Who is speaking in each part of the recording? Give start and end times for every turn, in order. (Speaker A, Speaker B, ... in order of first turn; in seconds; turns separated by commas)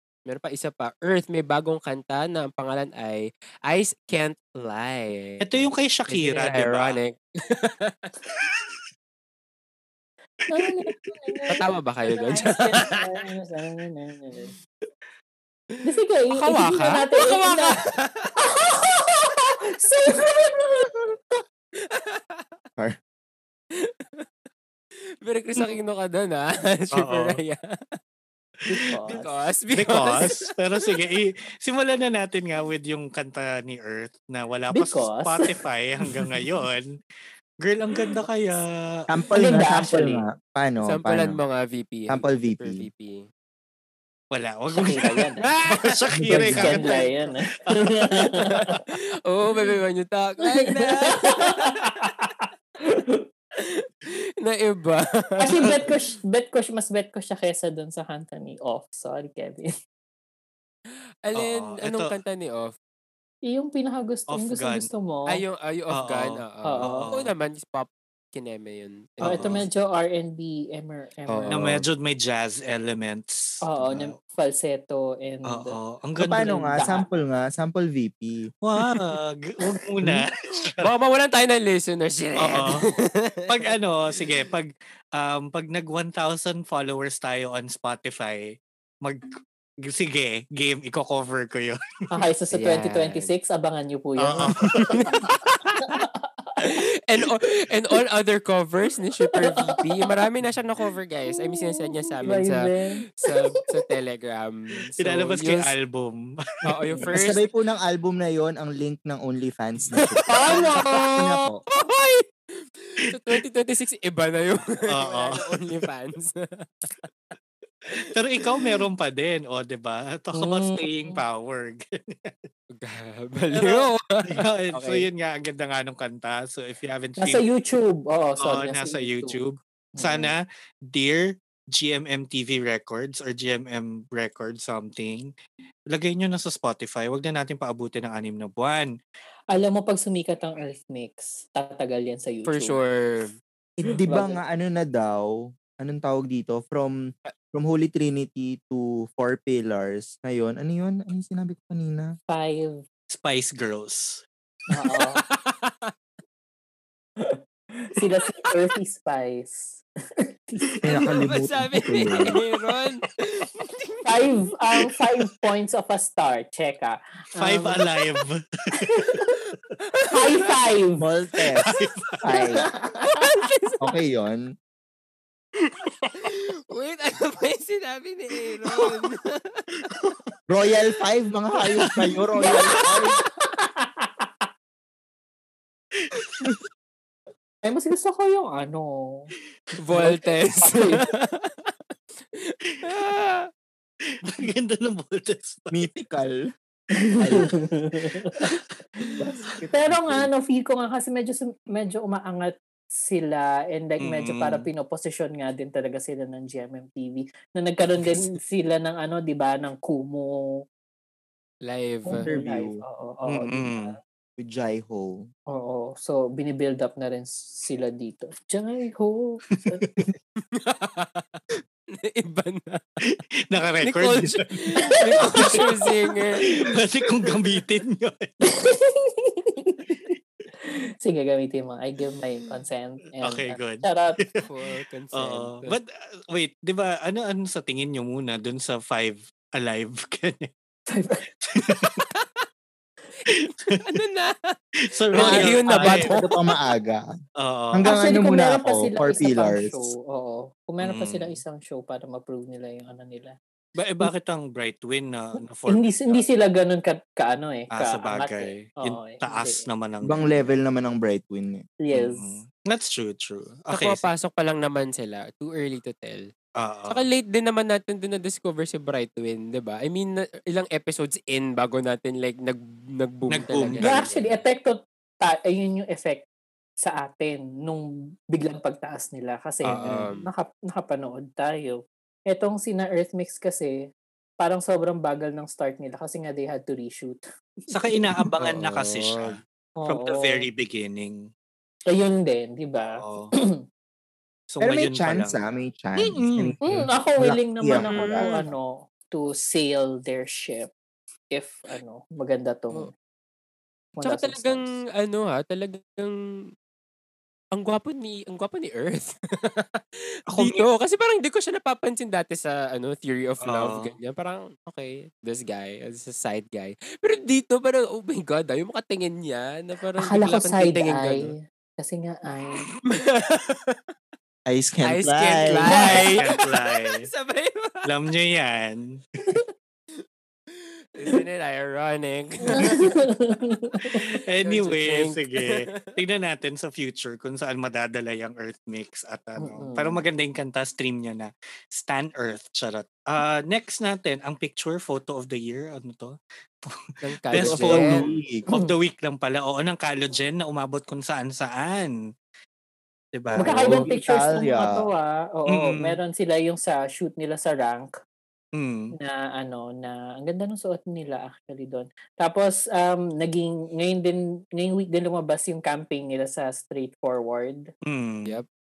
Speaker A: 0.3-8.3, Speaker B: 5.4-7.0, Speaker C: 10.5-14.5, Speaker A: 11.5-13.3, Speaker A: 15.7-18.4, Speaker C: 15.8-17.8, Speaker C: 18.4-21.2, Speaker A: 21.9-22.5, Speaker A: 23.8-24.2, Speaker A: 25.2-27.7, Speaker B: 27.0-27.4, Speaker C: 28.7-29.3, Speaker A: 29.0-31.0, Speaker B: 29.8-37.0, Speaker C: 34.7-35.6, Speaker B: 37.6-38.7, Speaker D: 39.1-41.4, Speaker C: 39.4-40.2, Speaker A: 40.8-43.3, Speaker D: 42.1-42.9, Speaker B: 44.3-45.1, Speaker C: 44.8-45.5, Speaker A: 45.4-46.0, Speaker B: 45.7-48.0, Speaker D: 46.2-46.8, Speaker C: 46.3-48.8, Speaker A: 48.6-52.1, Speaker C: 50.5-53.3, Speaker A: 53.6-56.0, Speaker C: 55.4-59.7, Speaker A: 61.2-62.8, Speaker B: 61.4-62.1, Speaker C: 63.5-65.4, Speaker B: 64.3-64.9, Speaker A: 65.3-69.6, Speaker B: 65.9-67.3, Speaker C: 66.6-67.1, Speaker B: 69.2-69.7, Speaker C: 69.2-71.6, Speaker A: 71.3-71.8, Speaker B: 71.5-74.1, Speaker C: 73.7-75.8, Speaker B: 75.5-76.5, Speaker D: 76.2-78.5, Speaker C: 76.3-77.1, Speaker B: 78.6-80.8, Speaker A: 80.7-83.7, Speaker B: 82.4-82.8, Speaker B: 83.5-91.8, Speaker C: 92.1-95.3, Speaker A: 92.5-93.3, Speaker B: 94.2-95.2, Speaker A: 94.6-96.0, Speaker C: 95.8-96.8, Speaker A: 96.6-105.8, Speaker C: 99.2-100.1, Speaker C: 101.3-103.8, Speaker B: 105.0-106.4, Speaker A: 106.7-107.5, Speaker D: 107.1-111.6, Speaker A: 110.0-117.1, Speaker C: 110.4-111.0, Speaker B: 114.9-115.5, Speaker A: 117.9-118.8, Speaker B: 118.0-122.5, Speaker C: 120.4-121.2, Speaker A: 122.7-125.1, Speaker B: 123.5-127.4, Speaker C: 127.2-129.4, Speaker B: 128.4-135.3, Speaker C: 130.0-130.3, Speaker B: 135.9-138.9, Speaker C: 139.5-142.8, Speaker A: 142.4-143.3, Speaker D: 143.8-152.1, Speaker C: 144.1-144.4, Speaker C: 152.3-152.8, Speaker B: 153.1-154.2, Speaker C: 154.7-155.2, Speaker A: 154.8-155.9, Speaker C: 157.2-161.0, Speaker A: 158.3-158.5, Speaker A: 160.7-165.3, Speaker D: 160.8-162.4, Speaker C: 164.1-167.8, Speaker B: 167.4-169.1, Speaker C: 168.8-169.3, Speaker A: 169.5-170.7, Speaker C: 170.1-171.0, Speaker D: 171.0-171.7, Speaker B: 171.7-172.1, Speaker D: 172.2-172.9, Speaker C: 172.3-172.6, Speaker A: 173.0-173.8, Speaker D: 173.8-174.6, Speaker A: 175.6-179.9, Speaker D: 180.5-183.2, Speaker A: 182.6-183.1, Speaker C: 183.4-184.4, Speaker B: 186.0-186.5, Speaker C: 187.6-189.3, Speaker A: 189.8-193.5, Speaker C: 189.9-191.1, Speaker B: 194.3-195.8, Speaker D: 195.7-196.4, Speaker C: 197.0-199.2, Speaker D: 197.2-197.6, Speaker D: 199.2-200.3, Speaker C: 199.7-210.5, Speaker B: 204.0-204.7, Speaker A: 211.7-212.3, Speaker C: 212.1-214.0, Speaker D: 212.1-212.8, Speaker B: 213.3-214.0, Speaker D: 214.4-215.3, Speaker C: 215.5-219.9, Speaker B: 219.6-219.9, Speaker A: 220.5-221.4, Speaker A: 221.9-223.2, Speaker B: 223.5-225.7, Speaker A: 223.8-226.6, Speaker C: 224.8-226.1, Speaker B: 226.6-228.3, Speaker C: 228.4-230.1, Speaker C: 230.6-234.2, Speaker B: 233.2-234.4, Speaker A: 234.4-235.8, Speaker B: 235.2-240.5, Speaker C: 240.9-241.3, Speaker B: 241.5-242.0, Speaker A: 241.8-242.4, Speaker A: 243.2-244.6, Speaker B: 243.3-243.8, Speaker B: 244.9-246.1, Speaker A: 245.1-246.3, Speaker C: 245.2-246.0, Speaker D: 245.8-247.1, Speaker B: 247.4-247.9, Speaker D: 247.7-249.9, Speaker C: 247.8-253.4, Speaker B: 250.8-251.4, Speaker B: 253.8-256.2, Speaker C: 255.7-259.7, Speaker B: 257.7-260.5, Speaker D: 260.0-261.7, Speaker C: 261.8-262.4, Speaker B: 261.9-264.0, Speaker A: 263.7-266.3, Speaker B: 266.6-267.0, Speaker A: 266.9-274.3, Speaker B: 273.3-274.1, Speaker C: 273.8-276.2, Speaker C: 276.8-283.9, Speaker A: 279.6-280.3, Speaker B: 279.7-280.0, Speaker C: 284.4-287.2, Speaker B: 287.7-291.2, Speaker A: 288.4-289.4, Speaker C: 289.8-290.5, Speaker C: 291.9-293.6, Speaker B: 292.9-293.3, Speaker B: 294.5-295.4, Speaker D: 294.6-298.3, Speaker B: 296.0-296.6, Speaker C: 296.6-300.7, Speaker A: 297.8-298.5, Speaker C: 301.3-302.9, Speaker C: 304.0-304.6, Speaker A: 304.0-306.1, Speaker A: 307.6-321.3, Speaker B: 310.3-310.6, Speaker B: 313.4-313.9, Speaker C: 320.0-322.7, Speaker A: 322.8-323.9, Speaker D: 324.5-326.1, Speaker A: 324.8-327.9, Speaker B: 325.7-327.1, Speaker B: 327.9-329.0, Speaker A: 330.5-332.9, Speaker C: 332.5-334.2, Speaker A: 333.7-336.0, Speaker B: 334.3-351.9, Speaker C: 339.4-340.0, Speaker A: 347.0-348.1, Speaker D: 347.4-348.4, Speaker C: 348.5-348.8, Speaker B: 353.1-353.8, Speaker D: 353.4-354.9, Speaker C: 353.4-357.9, Speaker B: 355.5-356.0, Speaker B: 358.6-358.9, Speaker C: 358.9-367.7, Speaker B: 367.9-368.4